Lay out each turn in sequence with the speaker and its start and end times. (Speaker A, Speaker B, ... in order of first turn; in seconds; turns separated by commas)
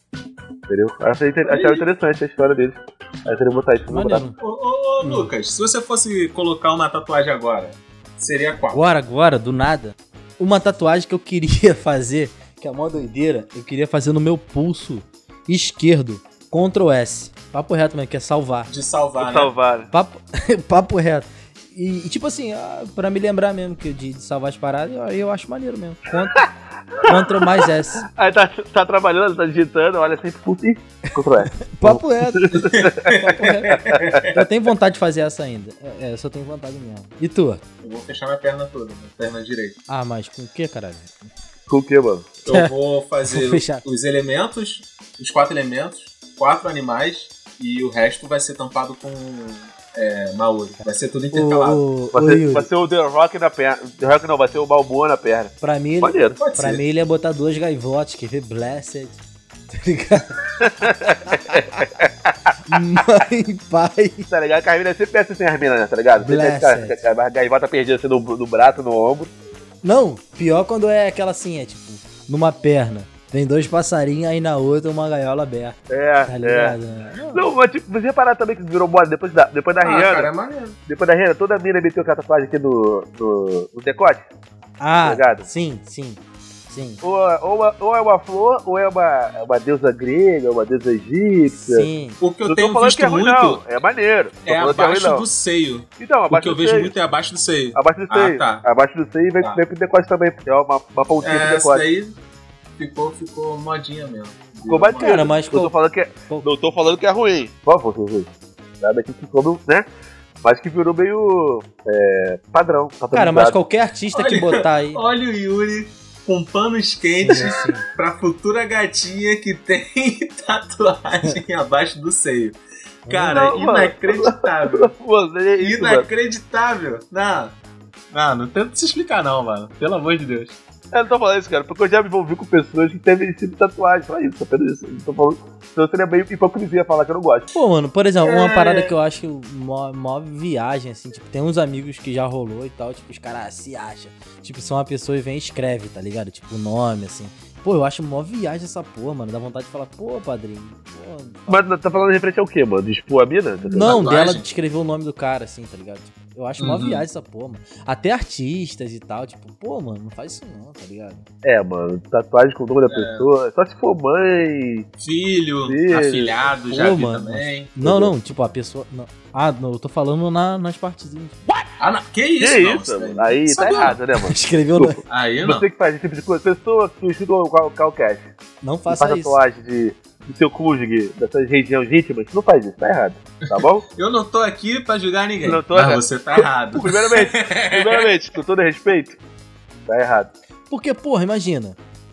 Speaker A: 0.7-4.2, Speaker B: 1.4-1.8, Speaker C: 3.9-4.4, Speaker B: 4.4-8.8, Speaker C: 5.0-5.3, Speaker C: 8.7-18.7, Speaker B: 18.7-19.5, Speaker A: 19.2-19.9, Speaker C: 19.9-26.5, Speaker A: 26.4-34.2, Speaker C: 27.0-28.1, Speaker C: 31.6-37.6, Speaker B: 32.6-34.4, Speaker B: 37.8-39.8, Speaker C: 39.9-41.2, Speaker A: 41.7-42.3, Speaker B: 42.4-51.8, Speaker C: 43.3-43.8, Speaker C: 51.3-52.7, Speaker A: 52.1-56.4, Speaker C: 55.6-59.2, Speaker B: 56.4-56.8, Speaker C: 59.7-61.9, Speaker A: 60.6-62.5, Speaker C: 62.7-64.3, Speaker A: 64.3-69.3, Speaker C: 66.2-67.0, Speaker C: 69.8-77.5, Speaker A: 75.9-76.8, Speaker A: 77.3-80.3, Speaker B: 79.8-80.8, Speaker A: 80.9-84.2, Speaker C: 84.8-87.0, Speaker A: 85.0-85.5, Speaker A: 87.0-91.9, Speaker C: 91.5-92.2, Speaker B: 92.2-93.6, Speaker A: 92.5-95.2, Speaker B: 94.5-98.6, Speaker A: 96.0-96.9, Speaker A: 97.7-101.8, Speaker B: 101.2-102.2, Speaker B: 102.8-105.3, Speaker A: 104.7-109.9, Speaker C: 105.0-105.7, Speaker A: 110.4-113.6, Speaker C: 113.1-115.0, Speaker B: 114.1-124.9, Speaker C: 117.2-117.8, Speaker C: 123.1-123.4, Speaker A: 123.3-126.1, Speaker B: 125.6-127.5, Speaker B: 128.1-130.6, Speaker A: 130.9-137.5, Speaker C: 137.5-151.7, Speaker B: 138.2-138.9, Speaker A: 151.5-154.1, Speaker C: 153.7-161.2, Speaker B: 153.8-154.4, Speaker B: 156.6-157.0, Speaker A: 161.4-164.9, Speaker B: 162.8-163.3, Speaker B: 165.0-167.7, Speaker A: 165.7-166.4, Speaker C: 166.7-171.5, Speaker A: 167.8-168.1, Speaker B: 171.8-174.0, Speaker A: 172.4-178.3, Speaker C: 174.2-175.0, Speaker B: 175.1-175.6, Speaker C: 178.6-179.4, Speaker A: 178.9-183.8, Speaker B: 183.5-188.1, Speaker A: 185.4-189.2, Speaker A: 189.9-190.3, Speaker C: 190.7-191.8